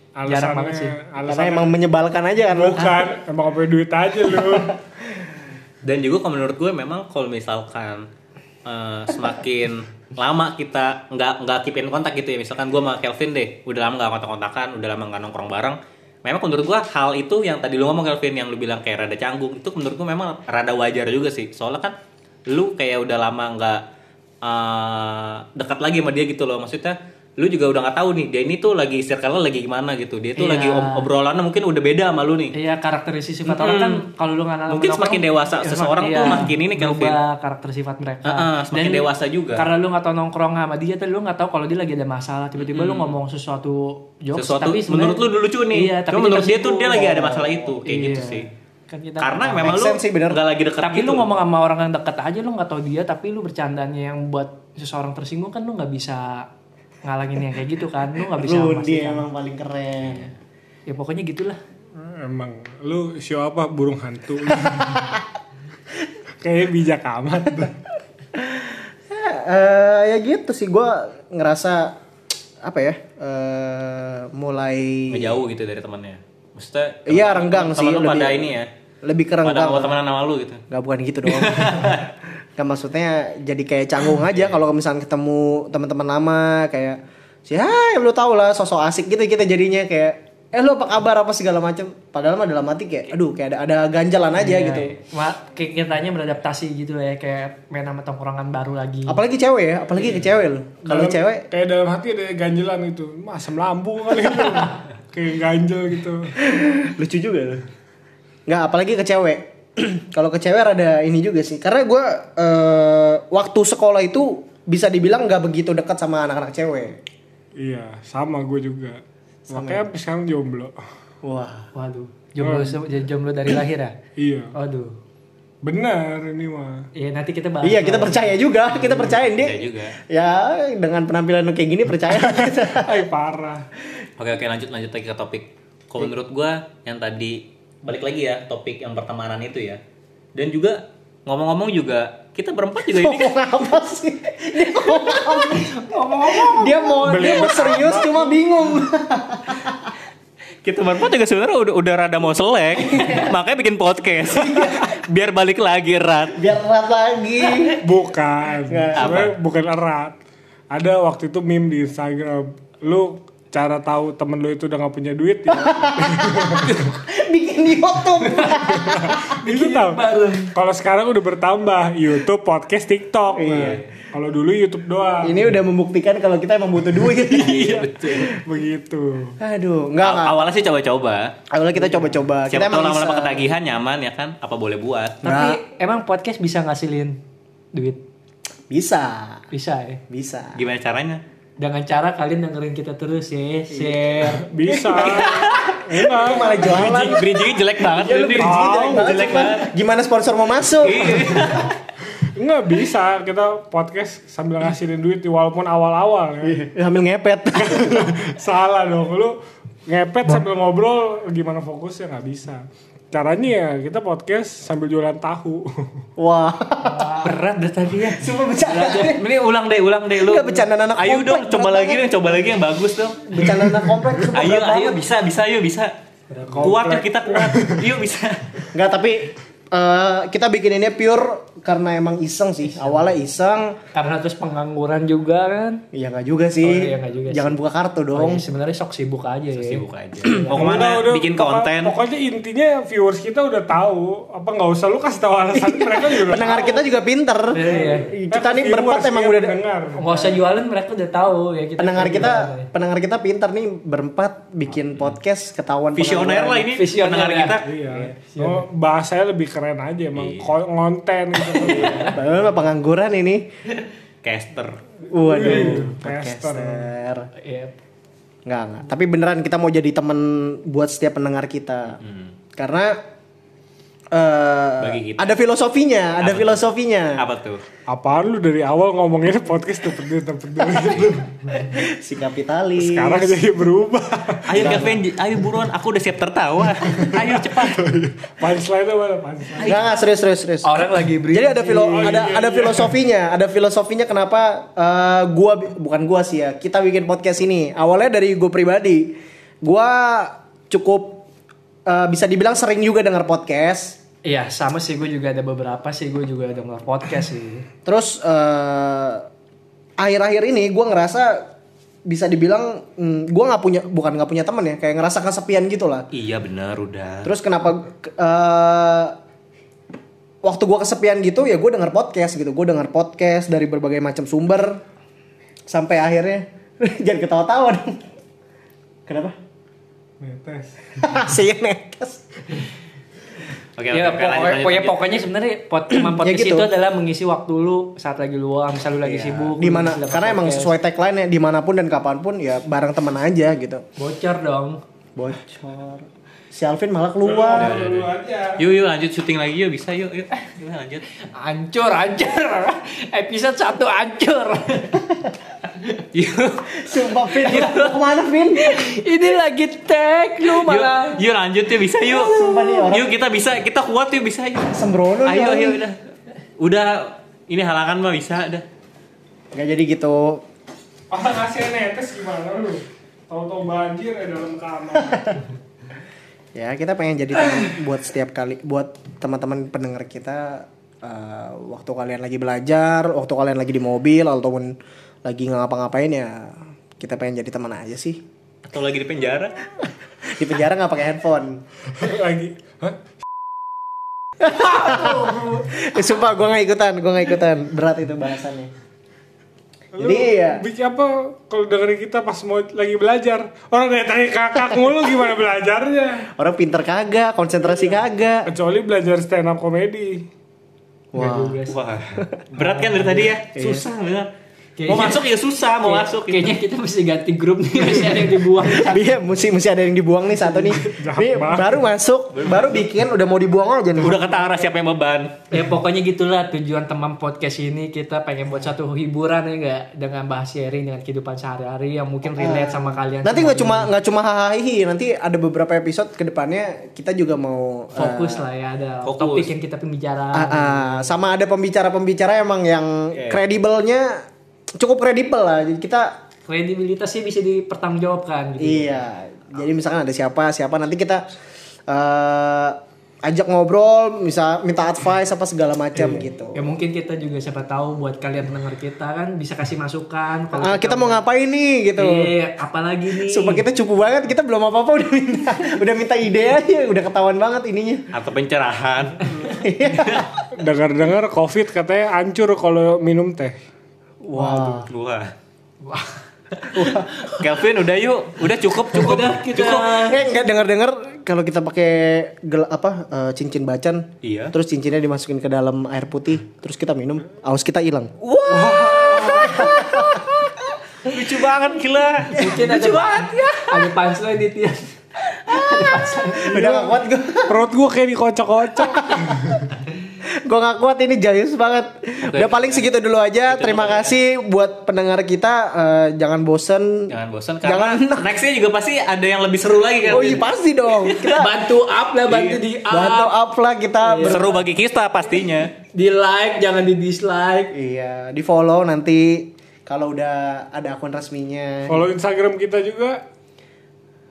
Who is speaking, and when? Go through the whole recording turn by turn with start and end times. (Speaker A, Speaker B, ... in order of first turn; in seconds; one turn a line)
Speaker A: 0.2-1.7
Speaker B: 0.3-1.0
Speaker C: 1.2-3.1
Speaker A: 2.5-4.8
Speaker C: 4.4-4.7
Speaker D: 5.8-8.1
Speaker D: 8.6-21.9
Speaker D: 22.5-23.8
Speaker D: 24.4-32.5
Speaker B: 30.4-31.1
Speaker B: 32.5-47.1
Speaker D: 33.5-34.0
Speaker D: 34.7-37.2
Speaker D: 38.2-39.6
Speaker D: 42.6-43.1
Speaker D: 44.3-48.5
Speaker C: 46.9-47.8
Speaker B: 47.9-49.8
Speaker D: 49.2-51.2
Speaker C: 49.6-50.4
Speaker B: 50.8-56.5
Speaker B: 57.0-59.2
Speaker C: 58.3-60.3
Speaker D: 60.0-60.3
Speaker B: 60.9-61.6
Speaker A: 61.9-65.2
Speaker A: 66.4-67.8
Speaker C: 68.3-71.9
Speaker C: 72.6-75.4
Speaker D: 75.1-78.7
Speaker C: 77.1-80.0
Speaker D: 79.4-80.6
Speaker C: 80.7-82.0
Speaker D: 81.2-82.1
Speaker C: 82.6-94.9
Speaker D: 84.2-84.6
Speaker B: 94.3-99.2
Speaker C: 99.1-101.4
Speaker A: 100.8-106.3
Speaker C: 106.4-107.6
Speaker C: 108.5-117.0
Speaker A: 117.6-120.7
Speaker C: 119.5-119.8
Speaker C: 121.2-121.7
Speaker B: 121.7-123.9
Speaker A: 122.4-122.8
Speaker A: 124.2-124.5
Speaker B: 124.5-124.9
Speaker A: 125.6-126.9
Speaker B: 126.9-128.3
Speaker C: 127.6-133.0
Speaker D: 128.9-129.9
Speaker A: 132.1-133.6
Speaker D: 134.2-139.8
Speaker D: 140.3-143.3
Speaker C: 142.9-149.9
Speaker B: 145.1-147.6
Speaker A: 147.0-148.4
Speaker D: 150.6-156.4
Speaker C: 154.3-154.9
Speaker C: 156.3-157.8
Speaker A: 157.8-160.2
Speaker C: 158.7-159.3
Speaker D: 158.9-159.3
Speaker A: 160.7-166.8
Speaker C: 165.5-169.3
Speaker B: 168.2-168.7
Speaker A: 168.6-170.0
Speaker B: 169.4-170.5
Speaker A: 170.5-175.6
Speaker C: 173.3-173.8
Speaker D: 173.5-173.8
Speaker C: 175.2-178.2
Speaker A: 177.1-179.4
Speaker D: 177.3-178.4
Speaker C: 179.4-180.4
Speaker D: 180.0-181.3
Speaker C: 181.5-183.5
Speaker D: 182.5-185.2
Speaker C: 185.2-185.6
Speaker B: 185.2-187.2
Speaker B: 187.7-188.0
Speaker C: 188.7-189.4
Speaker B: 189.5-190.0
Speaker C: 190.1-190.6
Speaker D: 190.6-191.2
Speaker B: 191.6-194.5
Speaker C: 193.7-197.3
Speaker A: 194.3-197.2
Speaker D: 195.0-195.8
Speaker D: 196.4-199.7
Speaker C: 197.8-201.6
Speaker A: 198.4-199.1
Speaker D: 200.8-201.7
Speaker A: 202.3-206.6
Speaker C: 206.4-208.2
Speaker A: 207.5-215.9
Speaker C: 216.2-217.2
Speaker B: 216.8-217.3
Speaker D: 217.2-223.5
Speaker C: 218.1-219.2
Speaker C: 220.2-222.1
Speaker C: 223.3-225.0
Speaker A: 223.7-224.2
Speaker D: 224.3-225.9
Speaker B: 226.3-227.0
Speaker D: 226.6-228.7
Speaker A: 227.3-227.8
Speaker C: 228.7-233.8
Speaker B: 233.9-235.8
Speaker C: 235.9-238.4
Speaker B: 236.6-237.6
Speaker B: 238.1-239.8
Speaker D: 239.5-241.9
Speaker A: 240.4-246.9
Speaker C: 245.5-249.6
Speaker B: 247.5-248.1
Speaker A: 247.7-250.1
Speaker B: 249.9-252.7
Speaker C: 251.8-256.7
Speaker D: 255.9-257.7
Speaker B: 256.7-258.6
Speaker A: 257.6-262.2
Speaker D: 260.1-260.5
Speaker C: 261.6-263.5
Speaker B: 261.7-262.2
Speaker D: 264.2-264.8
Speaker C: 265.1-267.3
Speaker A: 265.2-266.9
Speaker B: 265.5-265.8
Speaker B: 267.4-267.7
Speaker C: 268.4-272.0
Speaker D: 272.0-272.3
Speaker C: 272.5-273.0
Speaker C: 274.1-277.2
Speaker D: 274.8-275.3
Speaker D: 276.2-277.6
Speaker A: 277.9-281.5
Speaker C: 281.6-283.4
Speaker A: 282.8-284.9
Speaker D: 284.5-287.6
Speaker C: 284.6-285.0
Speaker A: 286.9-289.8
Speaker B: 287.1-287.8
Speaker C: 289.6-301.2
Speaker B: 290.6-292.3
Speaker A: 291.9-292.9
Speaker C: 301.9-304.0
Speaker B: 304.2-307.6
Speaker C: 307.9-309.2
Speaker C: 310.0-311.4
Speaker C: 312.1-316.1
Speaker D: 316.1-317.3
Speaker C: 317.2-319.1
Speaker C: 320.4-324.8
Speaker C: 325.7-328.0
Speaker C: 329.1-329.4
Speaker A: 330.2-331.2
Speaker C: 331.0-332.2
Speaker D: 333.8-335.0
Speaker B: 333.9-340.7
Speaker C: 335.9-336.7
Speaker C: 339.0-343.8
Speaker B: 344.0-344.8
Speaker C: 345.1-347.8
Speaker A: 347.2-348.6
Speaker D: 347.6-351.1
Speaker B: 351.4-355.0
Speaker D: 356.0-356.9
Speaker C: 356.8-358.8
Speaker D: 357.4-358.0
Speaker B: 358.6-361.2
Speaker D: 360.5-366.0
Speaker C: 362.0-363.1
Speaker C: 364.7-365.8
Speaker D: 366.6-368.6
Speaker C: 369.5-370.4
Speaker A: 371.1-375.4
Speaker C: 375.1-375.4
Speaker C: 376.5-388.2
Speaker D: 388.6-389.6
Speaker C: 390.2-391.6
Speaker A: 391.9-393.0
Speaker C: 394.4-398.7
Speaker A: 394.9-395.1
Speaker B: 395.0-395.4
Speaker A: 399.9-406.3
Speaker C: 400.0-400.6
Speaker C: 406.4-408.5
Speaker A: 407.6-410.2
Speaker C: 411.1-411.6
Speaker B: 411.1-411.7
Speaker D: 411.7-414.3
Speaker B: 412.6-413.3
Speaker C: 413.5-413.8
Speaker B: 414.8-415.2
Speaker D: 414.9-416.6
Speaker B: 415.8-419.0
Speaker C: 418.7-424.2
Speaker A: 420.6-421.8
Speaker D: 422.3-422.9
Speaker D: 424.0-425.4
Speaker B: 425.5-433.9
Speaker C: 432.3-438.4
Speaker B: 437.9-441.1
Speaker D: 439.0-439.5
Speaker C: 440.3-444.2
Speaker D: 443.1-443.4
Speaker C: 444.8-446.2
Speaker B: 446.5-449.0
Speaker C: 448.6-451.2
Speaker C: 451.9-456.6
Speaker B: 455.9-461.2
Speaker C: 460.5-462.3
Speaker B: 462.0-463.6
Speaker C: 463.1-468.0
Speaker D: 468.1-469.3
Speaker C: 469.5-470.3
Speaker A: 470.5-473.6
Speaker C: 474.2-474.9
Speaker B: 474.3-474.8
Speaker D: 474.9-475.3
Speaker B: 475.8-477.4
Speaker C: 476.7-477.1
Speaker D: 477.4-480.1
Speaker B: 478.9-480.2
Speaker C: 480.0-488.1
Speaker D: 484.2-484.5
Speaker D: 488.2-490.5
Speaker A: 488.5-489.6
Speaker C: 488.8-490.2
Speaker D: 491.0-493.9
Speaker B: 492.3-496.7
Speaker C: 495.9-497.6
Speaker A: 496.5-496.9
Speaker A: 497.5-499.6
Speaker C: 498.8-499.6
Speaker C: 500.4-507.1
Speaker D: 502.2-502.8
Speaker D: 503.5-504.1
Speaker D: 507.1-511.5
Speaker C: 507.6-508.3
Speaker B: 510.1-510.4
Speaker C: 510.1-511.5
Speaker B: 511.3-513.3
Speaker D: 512.2-512.6
Speaker C: 512.9-514.6
Speaker B: 514.0-514.5
Speaker D: 514.2-515.7
Speaker B: 515.9-517.7
Speaker C: 517.7-522.1
Speaker A: 521.9-523.2